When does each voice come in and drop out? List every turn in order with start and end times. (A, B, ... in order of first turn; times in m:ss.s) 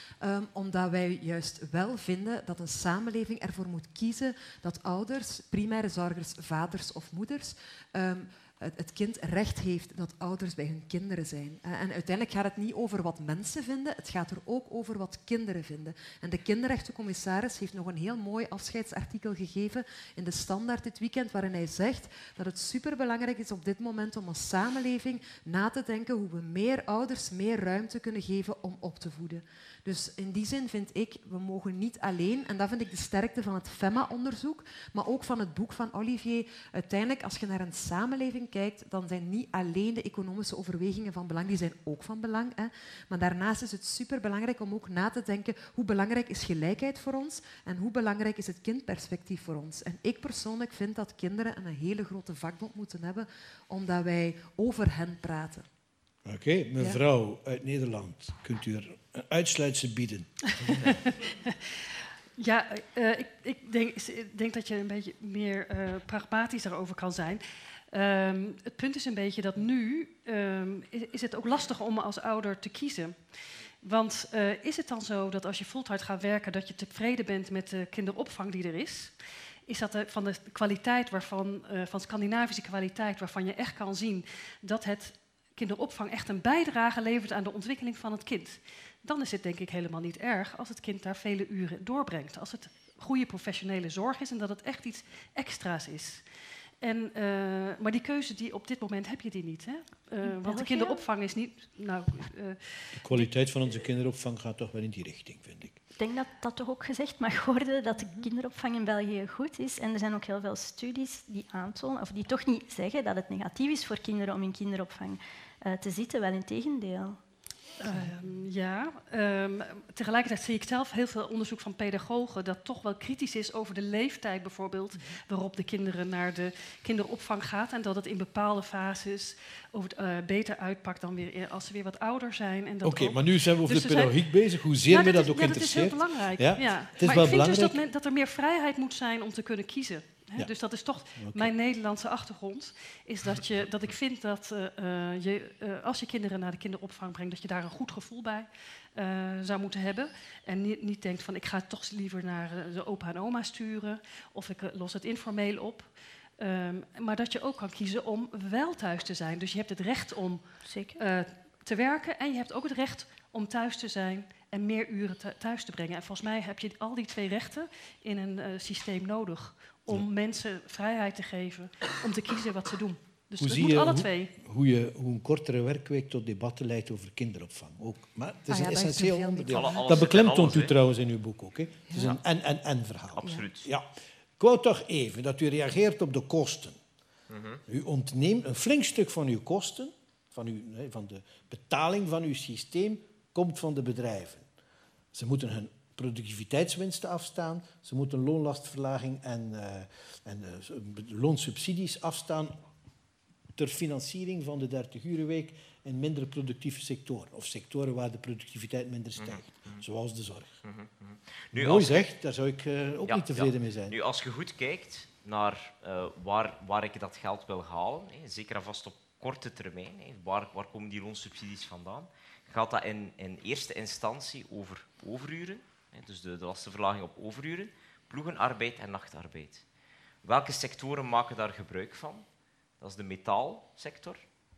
0:00.2-0:55.7 A
0:56.2-1:00.9 B
0:56.8-0:57.0 A
1:01.4-1:19.1 C
1:19.7-1:36.2 C
1:36.8-1:43.3 C
1:40.2-1:41.0 D
1:43.0-1:45.8 B
1:46.0-1:57.2 D
1:57.8-2:54.4 C
2:12.8-2:17.8 B
2:21.1-2:21.5 B
2:40.6-2:41.0 D
2:53.4-3:06.8 B
2:58.5-2:59.8 A
2:59.5-3:00.7 E
3:03.2-3:03.7 E
3:07.3-3:07.6 E
3:07.7-3:14.4 B
3:15.1-3:22.6 B
3:23.5-3:30.6 B
3:29.2-3:29.8 E
3:30.6-3:32.1 E
3:31.5-3:34.0 B
3:33.1-3:49.6 E
3:50.2-3:52.3 E
3:52.8-3:54.2 E